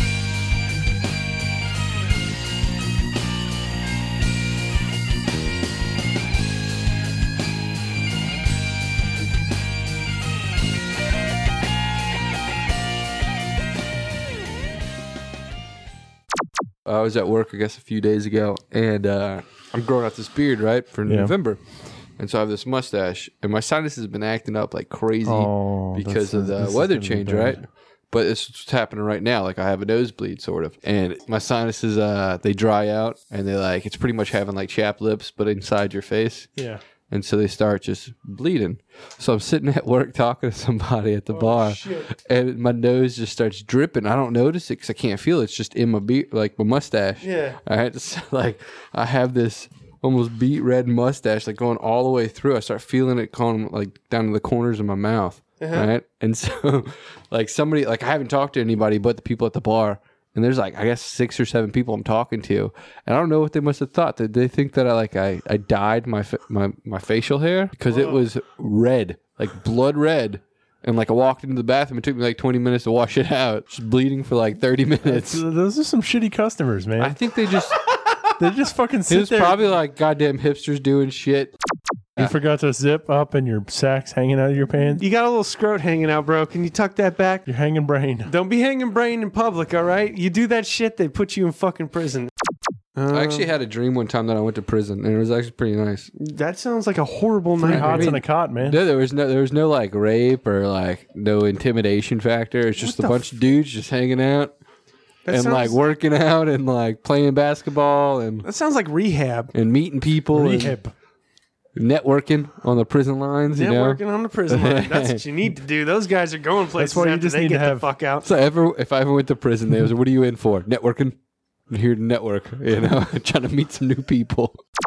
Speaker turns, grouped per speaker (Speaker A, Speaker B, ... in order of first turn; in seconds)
Speaker A: 16.8-36.5, 37.1-75.4, 77.0-77.8, 79.1-81.5, 93.1-96.1, 97.6-104.5, 105.3-108.5, 109.5-110.8, 111.8-115.2, 118.2-121.2, 121.7-124.6
Speaker B: 21.1-21.4, 25.2-27.6, 36.5-36.8, 75.0-77.2, 78.4-79.6, 82.2-85.0, 87.5-88.3, 97.6-98.8, 110.3-110.9, 116.8-117.9
Speaker C: 41.3-42.1, 47.2-47.6, 55.6-55.9, 67.9-68.2, 77.9-78.2, 85.0-87.5, 88.2-92.3, 92.9-93.5, 96.2-98.2, 102.8-103.3, 105.3-105.8, 108.4-109.5, 113.5-118.3